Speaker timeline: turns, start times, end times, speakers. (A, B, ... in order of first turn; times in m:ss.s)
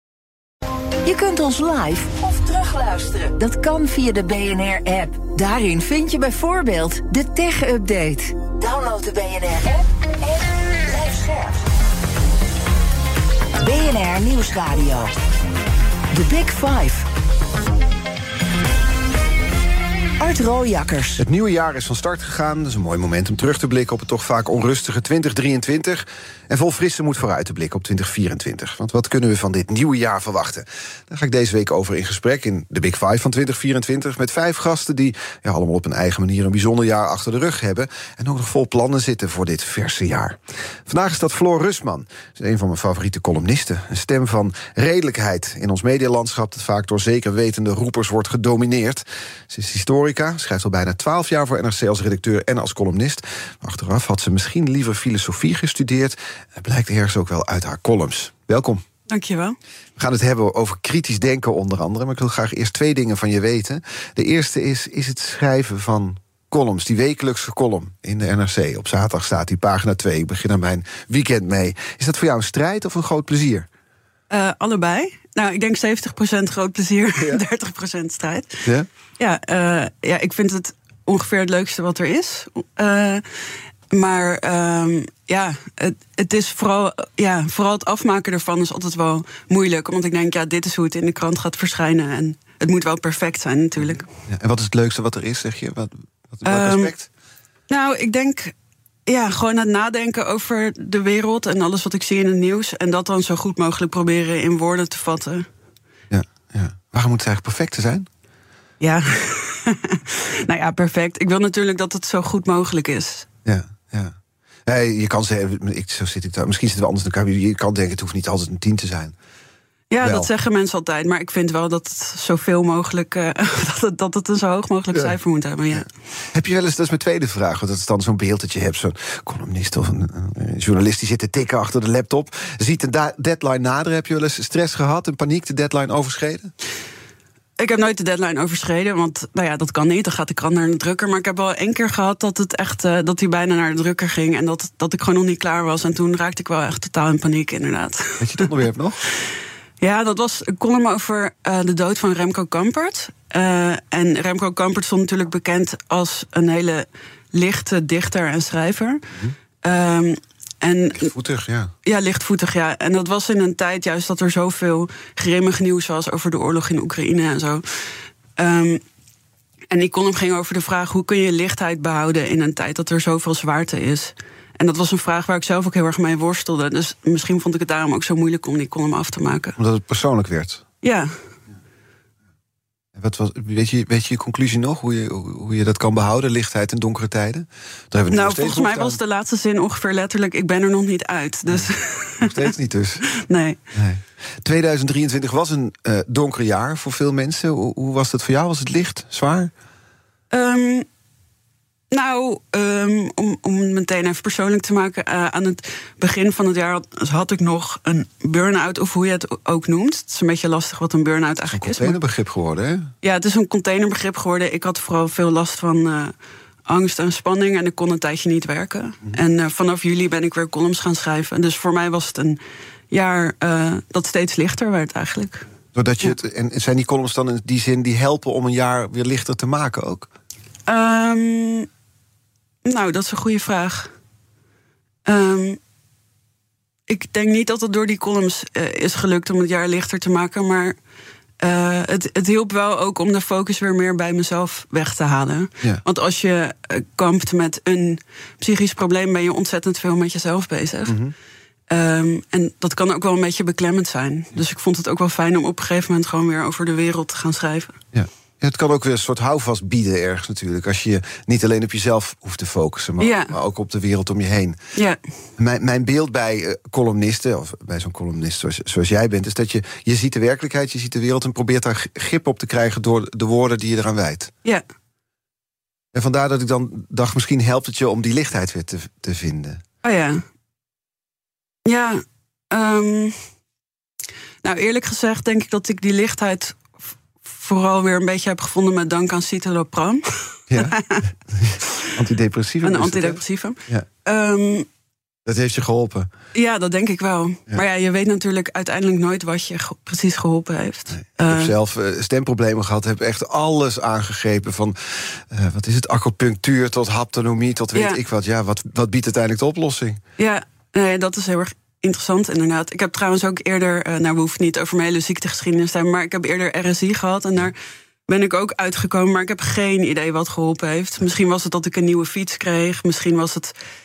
0:01.0-0:11.6 A
0:13.6-0:15.1 A
0:16.1-0:17.0 A
0:20.2-0:21.2 A
0:21.2-0:58.8 B
0:59.1-0:59.6 C
1:00.0-1:13.7 B
1:14.3-1:18.6 C
1:19.2-1:23.2 C
1:23.9-1:34.1 C
1:33.8-1:37.1 B
1:36.4-1:36.9 C
1:37.7-1:38.5 C
1:39.1-1:45.5 C
1:46.1-1:48.1 B
1:48.8-1:53.3 C
1:53.4-1:54.1 B
1:54.6-1:59.2 B
1:59.9-2:05.9 C
2:00.0-2:00.3 B
2:05.7-2:16.5 B
2:17.6-2:28.5 C
2:28.2-2:29.0 B
2:29.8-2:39.1 C
2:39.6-2:41.1 C
2:41.0-2:41.7 B
2:41.8-2:48.8 C
2:49.7-2:59.6 C
2:59.6-3:00.6 B
3:00.8-3:01.1 C
3:02.9-3:09.0 B
3:08.1-3:12.5 C
3:11.5-3:13.0 B
3:13.1-3:13.6 C
3:13.7-3:19.5 B
3:20.3-3:20.9 C
3:21.9-3:32.0 C
3:31.5-3:32.9 B
3:33.0-3:36.1 C
3:36.6-3:42.4 C
3:42.9-3:45.4 C
3:45.7-3:50.1 B
3:50.7-3:51.7 C
3:52.6-3:53.9 C
3:55.0-3:55.6 C
3:56.9-4:00.8 C
4:01.4-4:11.0 C
4:10.9-4:11.1 B
4:11.7-4:17.8 C
4:17.9-4:24.6 B
4:23.0-4:23.3 C
4:25.4-4:34.3 B
4:35.9-4:39.6 B
4:39.8-4:40.2 C
4:41.6-4:43.2 C
4:44.4-4:51.0 C
4:50.5-4:53.9 B
4:51.6-4:51.9 C
4:52.6-4:54.7 C
4:55.2-4:56.1 B
4:56.3-5:01.5 C
5:00.9-5:10.0 B
5:07.7-5:08.0 C
5:10.2-5:17.6 C
5:18.1-5:23.5 C